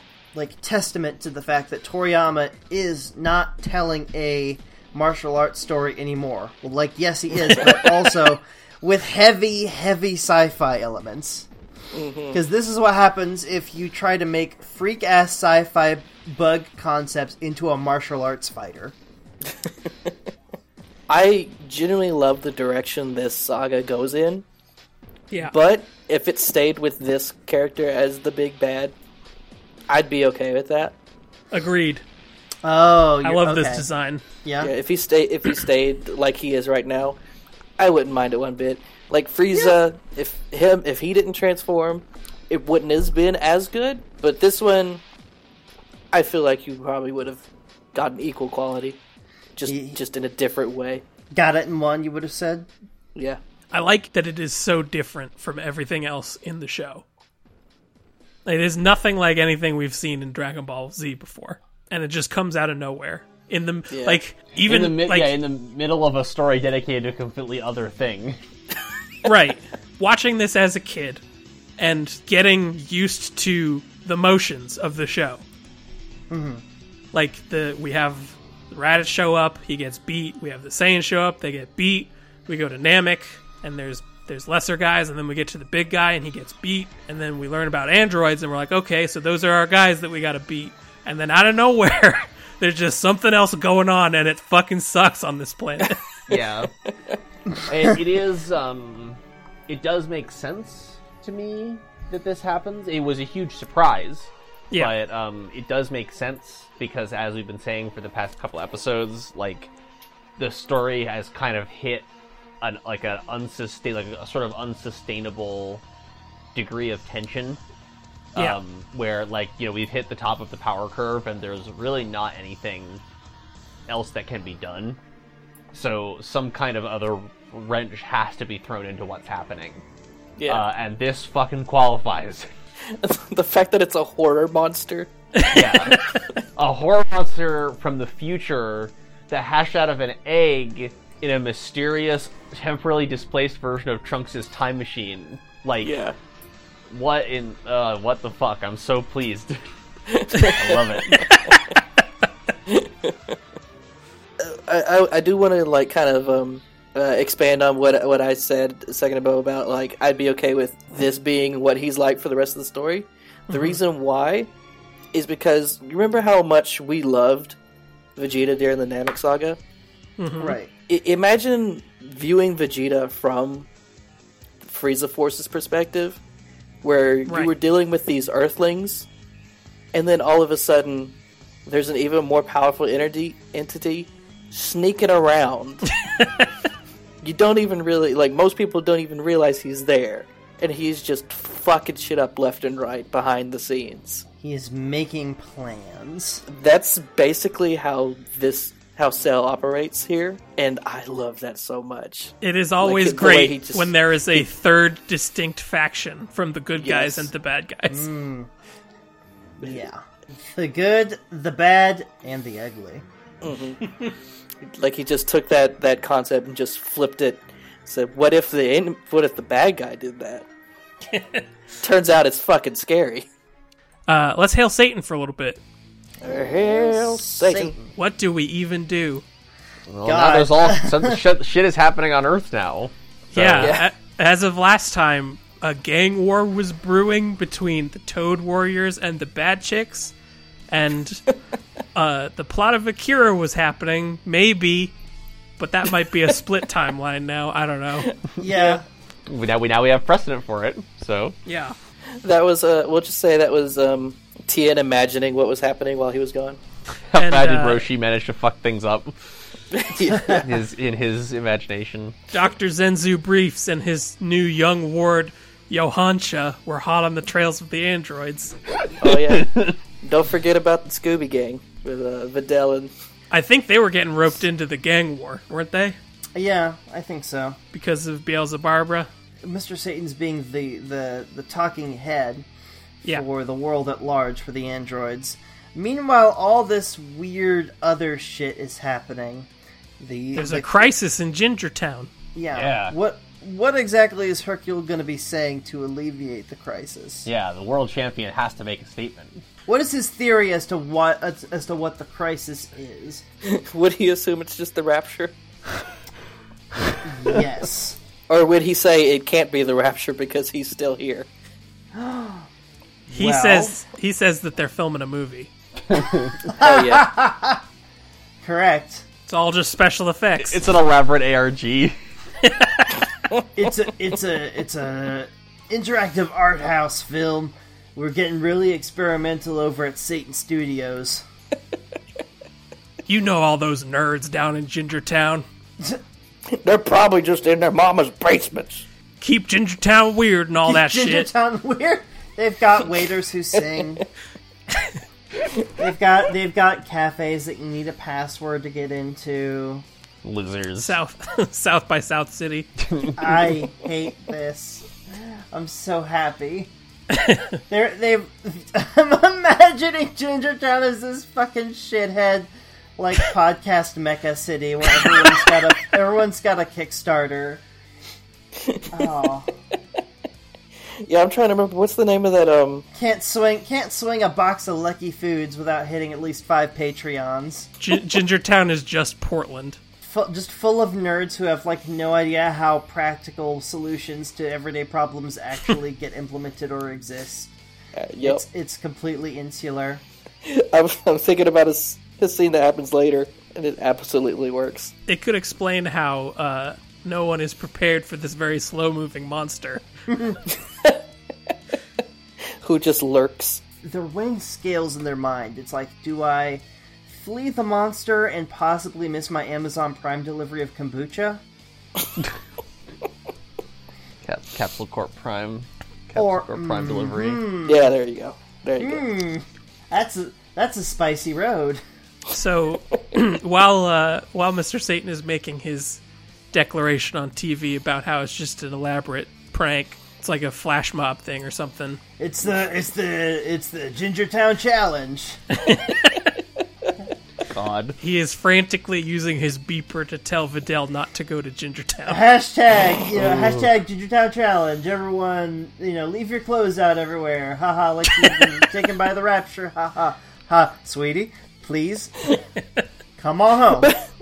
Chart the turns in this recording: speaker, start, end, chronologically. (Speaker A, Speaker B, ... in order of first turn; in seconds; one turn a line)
Speaker A: 0.3-11.5
Speaker B: 11.9-12.4
Speaker A: 12.3-18.9
Speaker B: 21.1-24.4
Speaker B: 25.4-28.9
Speaker B: 29.9-30.9
Speaker C: 31.5-32.0
Speaker A: 32.6-33.8
Speaker C: 33.2-34.2
Speaker A: 34.4-34.7
Speaker B: 34.6-37.2
Speaker B: 37.8-45.0
Speaker B: 46.1-49.0
Speaker B: 49.6-51.0
Speaker A: 49.7-50.0
Speaker A: 51.3-52.7
Speaker B: 53.1-53.4
Speaker C: 53.7-57.0
Speaker C: 58.5-65.4
Speaker B: 63.9-64.2
Speaker D: 64.6-68.4
Speaker C: 69.2-71.2
Speaker C: 71.8-75.4
Speaker A: 76.3-76.6
Speaker C: 77.1-96.0
Speaker D: 96.3-96.7
Speaker D: 97.7-109.7
Speaker D: 110.4-112.1
Speaker D: 112.6-115.8
Speaker D: 116.5-117.6
Speaker D: 118.3-123.0
Speaker D: 123.9-125.0
Speaker D: 125.7-129.8
Speaker B: 130.4-130.6
Speaker D: 130.4-132.5
Speaker B: 132.8-135.1
Speaker C: 135.4-136.0
Speaker D: 135.5-136.0
Speaker D: 136.6-145.9
Speaker B: 145.8-146.1
Speaker D: 146.9-149.6
Speaker B: 150.1-151.8
Speaker D: 150.5-151.2
Speaker C: 151.1-151.6
Speaker B: 152.7-153.3
Speaker B: 154.4-164.5
Speaker C: 163.5-163.8
Speaker B: 165.1-167.6
Speaker B: 168.2-169.6
Speaker C: 170.2-170.6
Speaker A: 170.4-170.7
Speaker B: 170.9-173.7
Speaker B: 174.6-176.2
Speaker B: 176.8-179.1
Speaker B: 179.9-181.1
Speaker B: 181.7-185.9
Speaker C: 186.2-186.5
Speaker B: 187.2-194.2
Speaker A: 194.4-196.4
Speaker B: 196.5-204.4
Speaker C: 202.4-208.1
Speaker B: 206.8-207.3
Speaker A: 207.9-208.5
Speaker A: 209.6-210.0
Speaker A: 210.5-213.0
Speaker B: 213.4-213.8
Speaker B: 214.7-220.4
Speaker C: 221.1-221.4
Speaker B: 221.8-223.2
Speaker C: 224.1-225.6
Speaker B: 226.2-227.7
Speaker A: 226.2-227.9
Speaker C: 227.9-229.2
Speaker D: 229.9-233.8
Speaker A: 230.0-231.2
Speaker C: 233.3-240.1
Speaker B: 233.6-233.9
Speaker C: 240.7-241.2
Speaker C: 241.9-244.9
Speaker C: 245.6-248.1
Speaker A: 248.4-248.8
Speaker D: 249.3-251.3
Speaker C: 251.4-251.7
Speaker B: 252.2-256.6
Speaker D: 257.1-259.2
Speaker C: 257.2-257.9
Speaker B: 259.7-260.4
Speaker D: 260.4-262.2
Speaker C: 262.3-268.6
Speaker B: 269.0-272.9
Speaker D: 269.1-269.8
Speaker C: 273.3-276.0
Speaker A: 276.3-277.6
Speaker C: 277.7-279.1
Speaker A: 279.4-282.4
Speaker A: 283.1-289.5
Speaker A: 290.0-290.9
Speaker C: 290.3-292.1
Speaker A: 292.3-297.3
Speaker D: 292.5-292.9
Speaker D: 297.2-299.4
Speaker A: 299.7-303.2
Speaker B: 303.4-305.3
Speaker A: 307.0-308.0
Speaker B: 308.3-311.3
Speaker A: 311.9-312.5
Speaker A: 313.1-313.8
Speaker C: 313.1-315.5
Speaker D: 315.9-316.4
Speaker A: 316.4-317.6
Speaker B: 316.6-317.1
Speaker A: 318.4-319.0
Speaker C: 319.3-320.6
Speaker D: 320.4-321.9
Speaker C: 322.4-322.9
Speaker A: 323.5-331.2
Speaker C: 333.1-335.4
Speaker B: 336.5-338.8
Speaker C: 339.2-341.3
Speaker A: 340.6-344.0
Speaker A: 345.8-349.8
Speaker D: 350.2-351.0
Speaker C: 350.8-352.7
Speaker D: 352.8-353.5
Speaker A: 353.1-355.0
Speaker A: 355.5-356.7
Speaker C: 357.1-357.6
Speaker A: 357.7-367.6
Speaker B: 368.6-369.1
Speaker A: 368.9-369.5
Speaker B: 371.0-372.9
Speaker A: 372.9-377.7
Speaker C: 377.8-379.8
Speaker A: 380.0-387.5
Speaker B: 387.9-388.4
Speaker A: 388.2-390.0
Speaker B: 390.4-394.9
Speaker C: 395.1-399.8
Speaker A: 400.1-400.4
Speaker B: 402.6-403.6
Speaker A: 403.8-411.4
Speaker D: 414.2-417.4
Speaker A: 416.1-417.9
Speaker B: 417.6-419.0
Speaker A: 418.8-421.8
Speaker C: 422.3-426.0
Speaker C: 426.5-432.0
Speaker A: 432.2-435.4
Speaker C: 435.5-436.3
Speaker D: 437.5-438.0
Speaker C: 438.0-442.2
Speaker A: 442.1-452.3
Speaker D: 443.1-443.7
Speaker A: 453.2-453.9